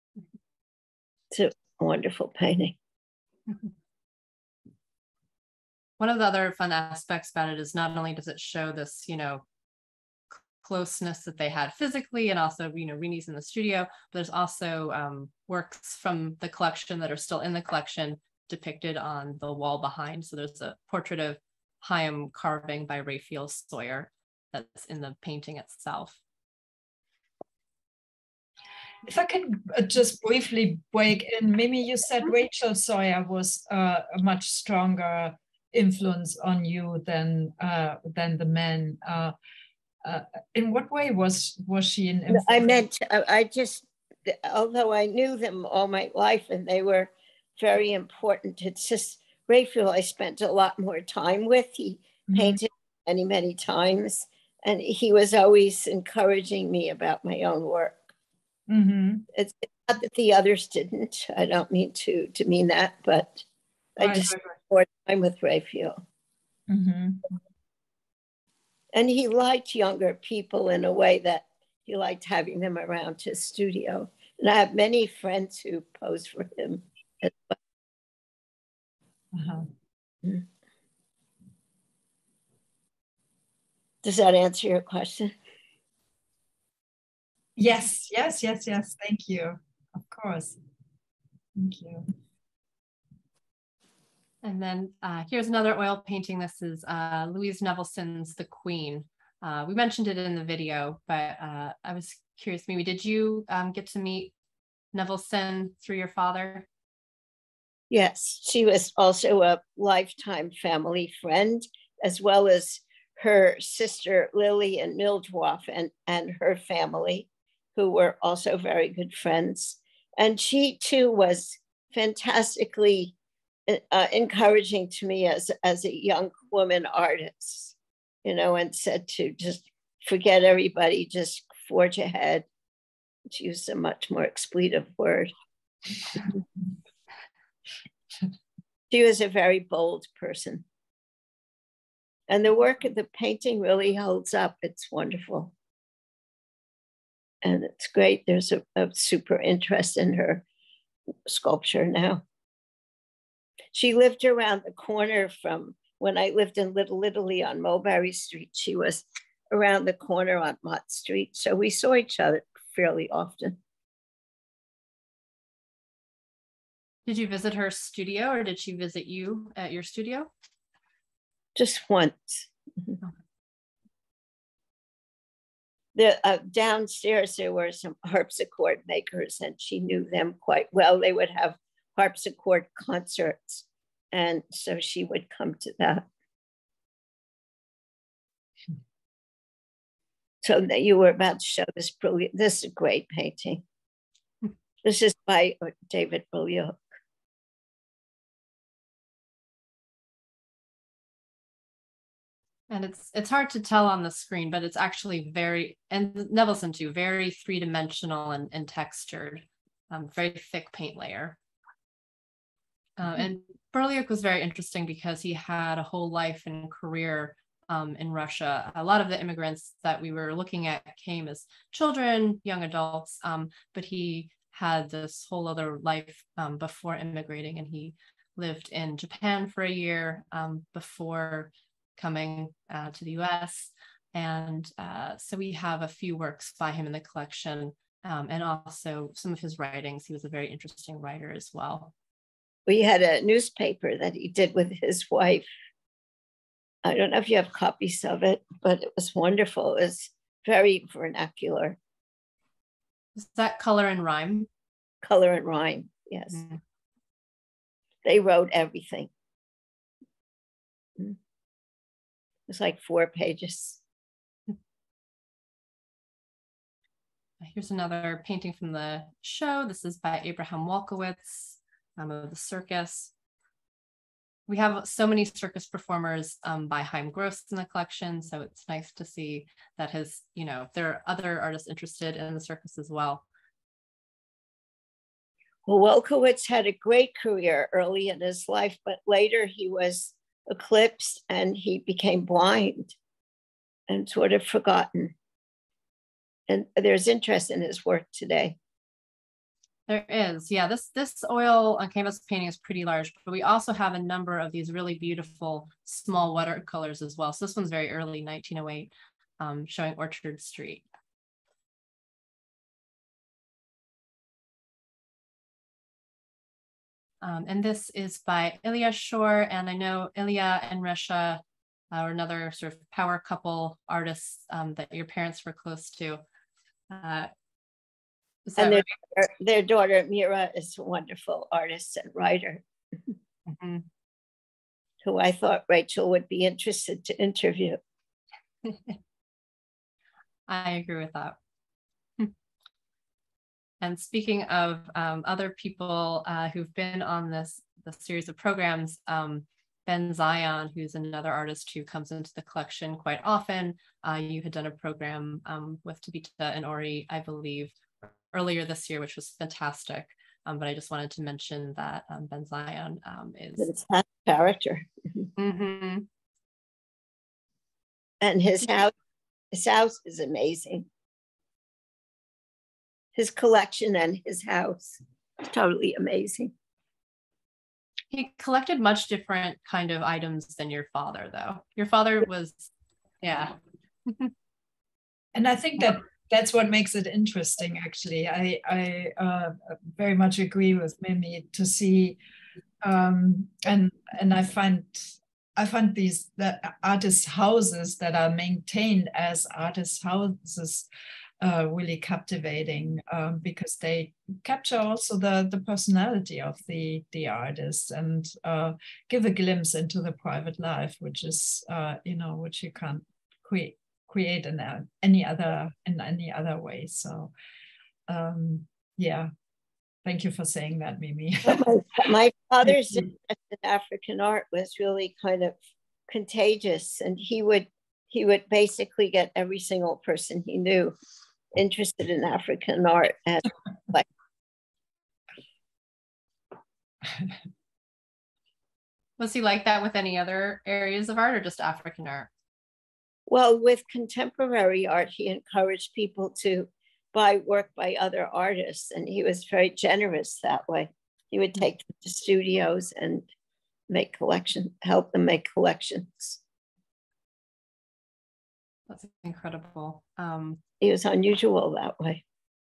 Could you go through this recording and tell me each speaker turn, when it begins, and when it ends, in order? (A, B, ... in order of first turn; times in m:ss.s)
0:01.3-0:02.8 A
0:06.0-0:09.4 B
0:10.3-0:26.2 B
0:29.1-0:39.4 C
0:40.0-0:42.8 C
0:42.3-0:58.0 A
0:52.3-0:52.6 C
0:58.7-0:59.3 C
0:59.3-1:03.4 A
1:04.0-1:06.0 A
1:04.0-1:04.4 C
1:06.7-1:07.2 C
1:08.9-1:17.6 A
1:19.3-1:19.7 C
1:24.0-1:25.3 A
1:27.6-1:30.6 C
1:31.6-1:32.0 C
1:34.4-1:44.3 B
1:44.9-1:46.7 B
1:47.9-2:03.1 A
2:03.7-2:12.5 A
2:13.3-2:15.3 A
2:18.9-2:20.6 A
2:22.3-2:25.5 A
2:27.4-2:30.4 A
2:31.3-2:32.2 A
2:33.7-2:43.6 A
2:47.1-2:50.3 B
2:51.6-2:53.0 A
2:56.0-3:06.1 A
3:10.4-3:13.6 A
3:14.8-3:16.8 A
3:22.7-3:31.4 B
3:33.0-4:01.9 B
4:02.7-4:05.5 A
4:06.8-4:11.8 A
4:13.2-4:14.5 B
4:15.0-4:16.4 A
4:16.3-4:16.6 B
4:18.0-4:19.1 A
4:22.5-4:23.8 A
4:27.4-4:33.1 B
4:34.5-4:43.2 B
4:45.7-4:53.0 A
4:53.9-4:55.1 A
4:56.5-4:58.6 A
4:59.9-5:10.9 B
5:17.2-5:26.2 B
5:26.9-5:27.3 B
5:28.4-5:28.9 B
5:28.6-5:32.6 A
5:33.5-5:33.9 B
5:35.0-5:37.8 A
5:38.6-5:39.0 B
5:40.5-5:41.4 B
5:43.8-6:03.7 B
6:03.6-6:05.3 A
6:05.4-6:06.1 B
6:08.2-6:08.9 A
6:09.5-6:10.9 A
6:13.2-6:16.5 A
6:18.1-6:23.5 B
6:24.1-6:24.3 B
6:25.4-6:32.2 C
6:32.8-6:40.9 C
6:41.4-6:57.3 C
6:58.1-6:59.3 C
7:00.0-7:01.6 C
7:01.4-7:05.6 A
7:06.1-7:11.0 A
7:11.5-7:14.1 A
7:19.2-7:22.3 B
7:23.3-7:33.3 A
7:33.9-7:36.4 A
7:38.9-7:40.6 B
7:40.8-7:42.2 A